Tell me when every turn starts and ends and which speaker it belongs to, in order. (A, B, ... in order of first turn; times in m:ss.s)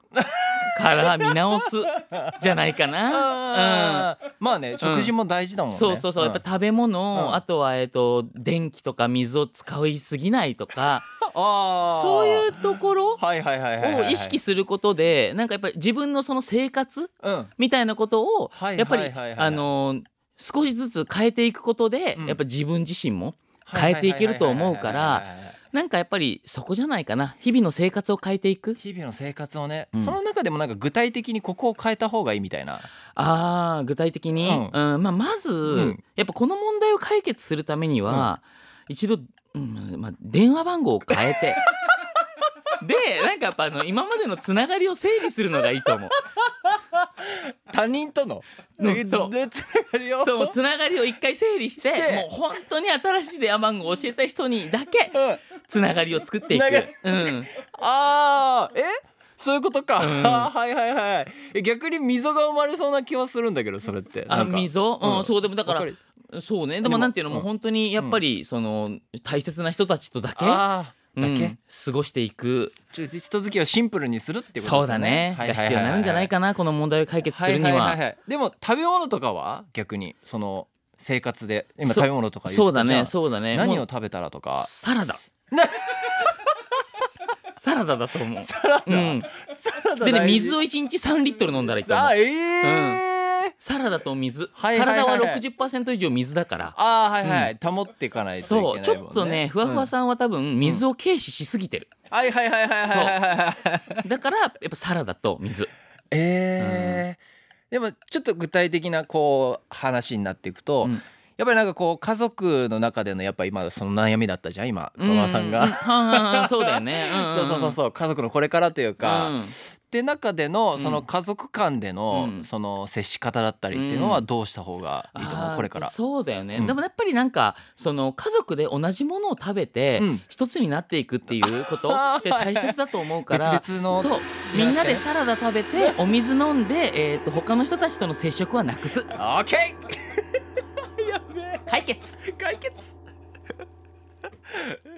0:00.2-0:01.4 A
0:00.7-0:04.1 B
0:01.9-0:02.4 A
0:03.1-0:06.4 A
0:04.8-0:05.1 B
0:05.7-0:11.1 B
0:07.1-0:07.4 A
0:11.2-0:12.6 A
0:11.9-0:13.2 B
0:13.2-0:14.4 A
0:13.8-0:28.8 B
0:17.2-0:17.5 A
0:18.5-0:19.6 A
0:23.6-0:25.6 A
0:28.8-0:32.9 A
0:33.2-0:41.8 B
0:34.4-0:34.8 A
0:35.6-0:36.0 A
0:41.4-0:42.5 A
0:42.8-0:46.2 B
0:46.3-0:50.5 A
0:48.8-0:49.4 B
0:50.2-0:57.5 B
0:51.8-0:52.3 A
0:55.1-0:55.4 A
0:56.5-1:06.0 A
1:00.0-1:00.5 B
1:04.3-1:12.8 B
1:06.8-1:08.2 A
1:10.4-1:11.6 A
1:12.9-1:16.3 A
1:14.6-1:18.0 B
1:17.3-1:24.7 A
1:21.8-1:23.9 B
1:24.6-1:25.2 B
1:25.5-1:26.6 A
1:27.6-1:29.3 B
1:28.4-1:30.6 A
1:30.0-1:33.0 B
1:31.7-1:33.5 A
1:33.6-1:37.5 B
1:34.6-1:35.4 A
1:36.7-1:39.9 A
1:38.4-1:41.9 B
1:42.1-1:44.1 A
1:42.8-1:43.2 B
1:44.0-1:45.7 B
1:46.1-2:05.9 A
1:46.6-1:47.0 B
1:55.0-1:57.8 B
1:59.0-1:59.6 B
2:00.8-2:01.1 B
2:02.1-2:02.5 B
2:03.7-2:04.3 B
2:05.1-2:19.2 B
2:10.0-2:10.2 A
2:11.3-2:12.8 A
2:13.3-2:15.0 A
2:19.1-2:23.0 A
2:21.7-2:22.3 B
2:24.5-2:24.8 A